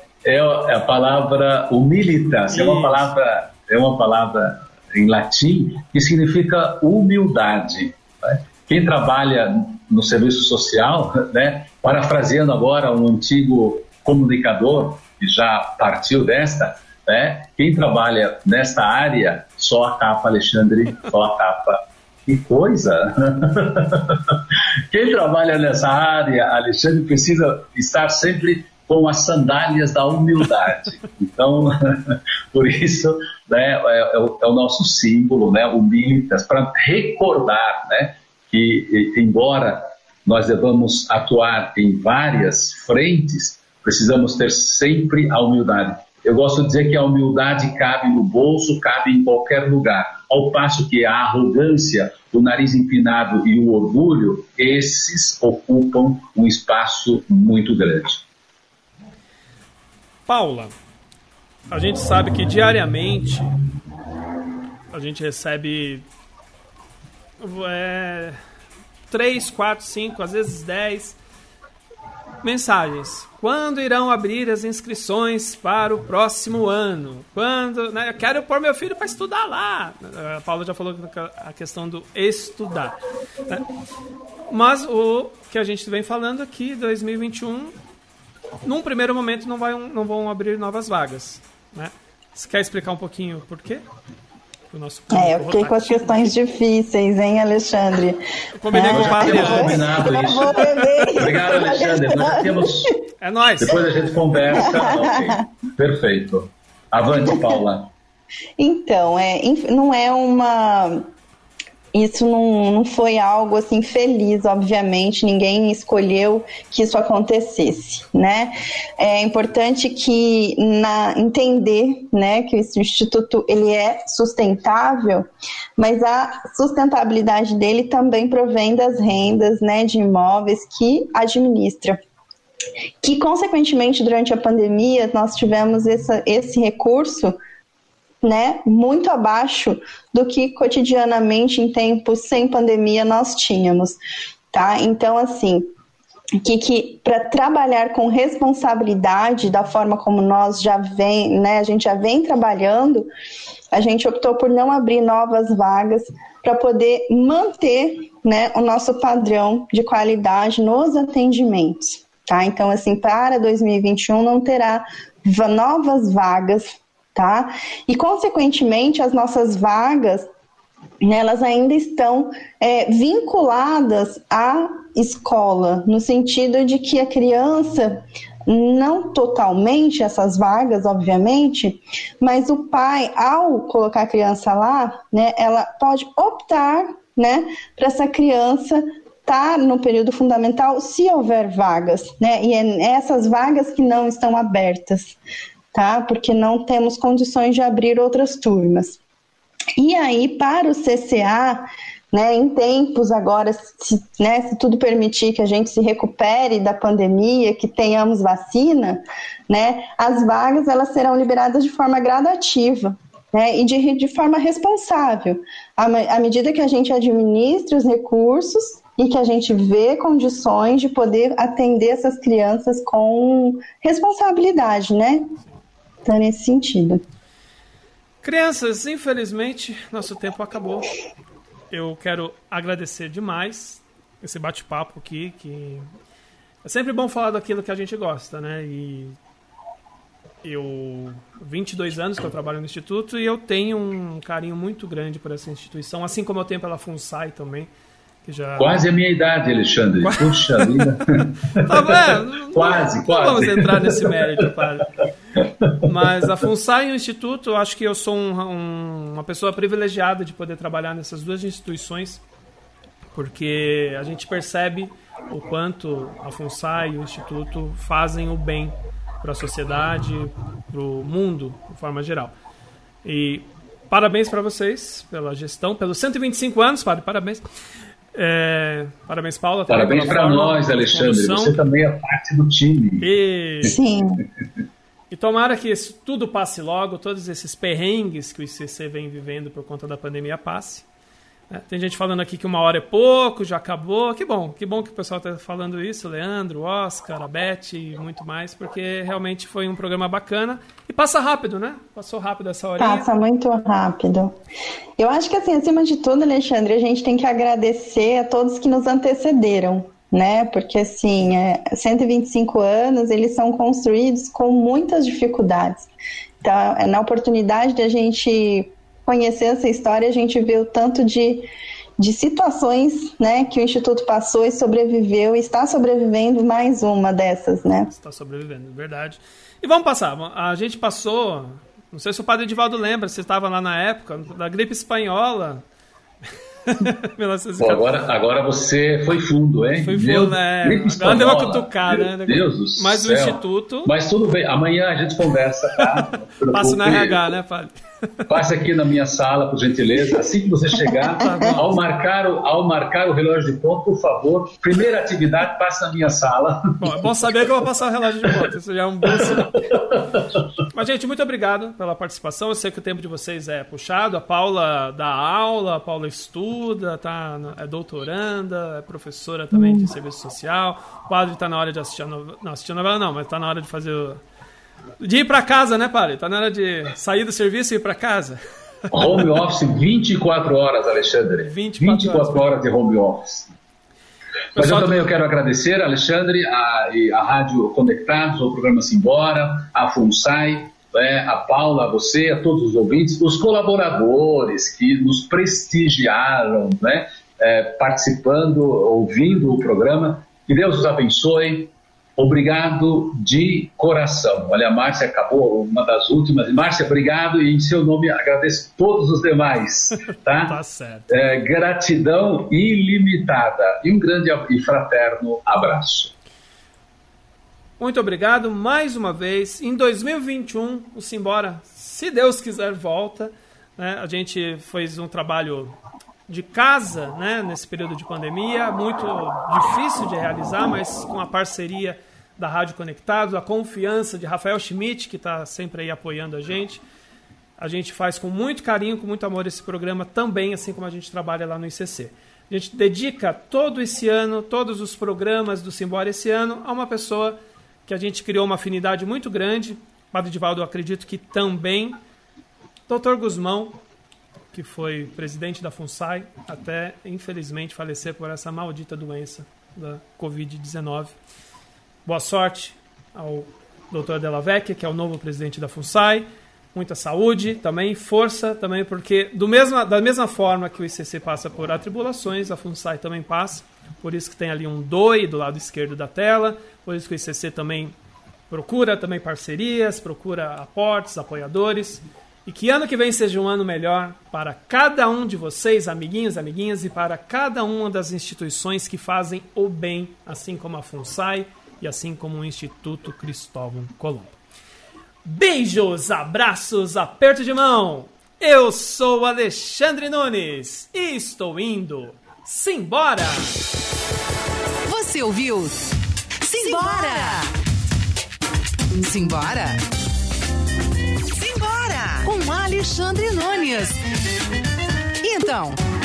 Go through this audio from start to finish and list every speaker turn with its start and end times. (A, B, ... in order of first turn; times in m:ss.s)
0:00.2-0:58.3 A
0:02.5-0:03.1 B
1:00.3-1:00.7 B
1:01.7-1:03.6 B
1:04.9-1:06.1 B
1:07.4-1:08.4 B
1:09.1-1:11.2 B
1:12.4-1:23.7 B
1:24.5-1:27.8 B
1:28.6-1:33.8 B
1:34.7-1:36.3 B
1:35.1-1:42.9 C
1:38.6-1:40.0 B
1:38.8-1:43.0 A
1:40.6-1:41.1 B
1:43.2-1:43.8 B
1:43.6-1:47.9 A
1:44.5-1:45.4 C
1:48.6-1:51.1 C
1:51.9-2:12.0 C
2:13.0-2:17.4 C
2:18.2-2:24.0 C
2:24.5-2:25.7 C
2:26.4-2:33.1 C
2:33.7-2:50.3 C
2:51.0-3:15.2 C
3:15.7-3:19.0 C
3:19.8-3:45.3 C
3:46.0-3:47.0 C
3:48.2-3:50.9 B
3:51.7-3:55.9 B
3:56.6-3:59.2 B
4:00.4-4:07.7 B
4:08.2-4:08.8 B
4:08.6-4:14.4 A
4:10.0-4:11.0 B
4:11.5-4:14.9 B
4:15.4-4:15.8 A
4:15.8-4:22.2 B
4:23.1-4:32.3 B
4:33.0-4:37.4 B
4:38.1-4:41.6 B
4:39.7-4:43.1 A
4:43.0-4:43.8 B
4:43.6-4:44.2 C
4:45.1-4:50.8 B
4:51.5-5:03.1 B
5:02.8-5:04.4 C
5:05.0-5:15.9 C
5:16.4-5:27.9 C
5:27.9-5:35.6 B
5:36.7-5:37.9 B
5:37.6-5:47.2 A
5:39.8-5:43.9 B
5:46.5-5:47.7 B
5:48.3-5:56.7 A
5:51.1-5:51.8 B
5:56.8-5:59.7 B
5:59.8-6:00.4 A
6:00.7-6:14.2 B
6:09.6-6:09.8 C
6:15.0-6:18.4 B
6:18.9-6:23.5 A
6:21.4-6:22.5 B
6:24.6-6:25.1 B
6:24.6-6:50.6 A
6:50.4-6:51.1 B
6:51.1-6:56.1 A
6:57.8-7:05.8 B
7:06.3-7:16.8 B
7:17.6-7:32.0 B
7:32.9-7:33.8 B
7:34.5-7:41.2 B
7:42.0-7:58.0 B
7:58.5-8:14.4 B
8:15.2-8:23.6 B
8:24.9-8:25.8 D
8:26.4-8:27.5 D
8:28.9-8:29.8 D
8:31.3-8:34.0 D
8:35.2-8:35.8 D